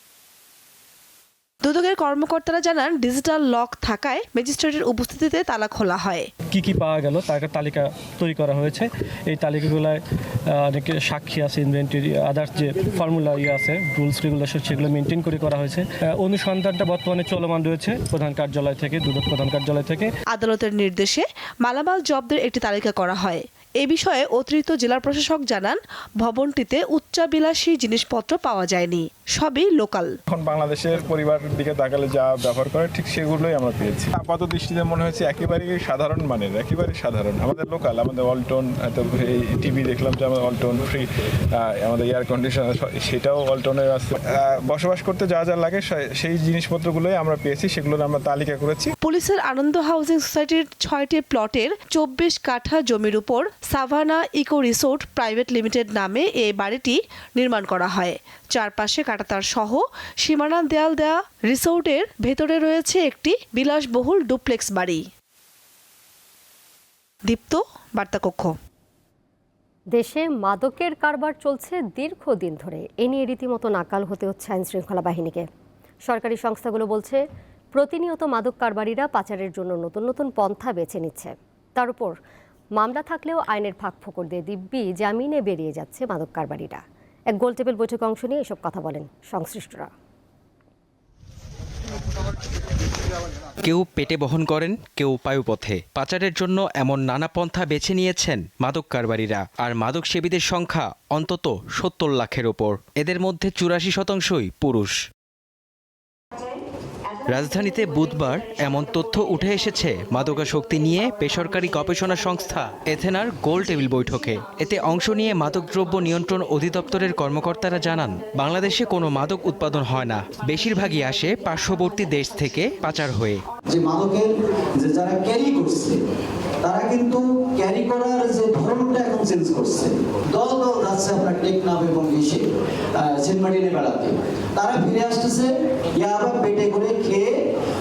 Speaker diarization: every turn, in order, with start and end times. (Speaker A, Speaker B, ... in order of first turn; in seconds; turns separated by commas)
Speaker A: 1.6-6.3, Speaker B: 6.5-20.1, Speaker A: 20.3-30.1, Speaker C: 30.3-48.9, Speaker A: 49.0-65.0, Speaker A: 67.3-68.5, Speaker D: 69.9-75.5, Speaker D: 76.0-82.2, Speaker D: 82.7-89.9, Speaker E: 93.6-104.9, Speaker E: 107.3-123.4, Speaker F: 123.7-126.0, Speaker F: 126.6-132.4, Speaker F: 133.0-137.2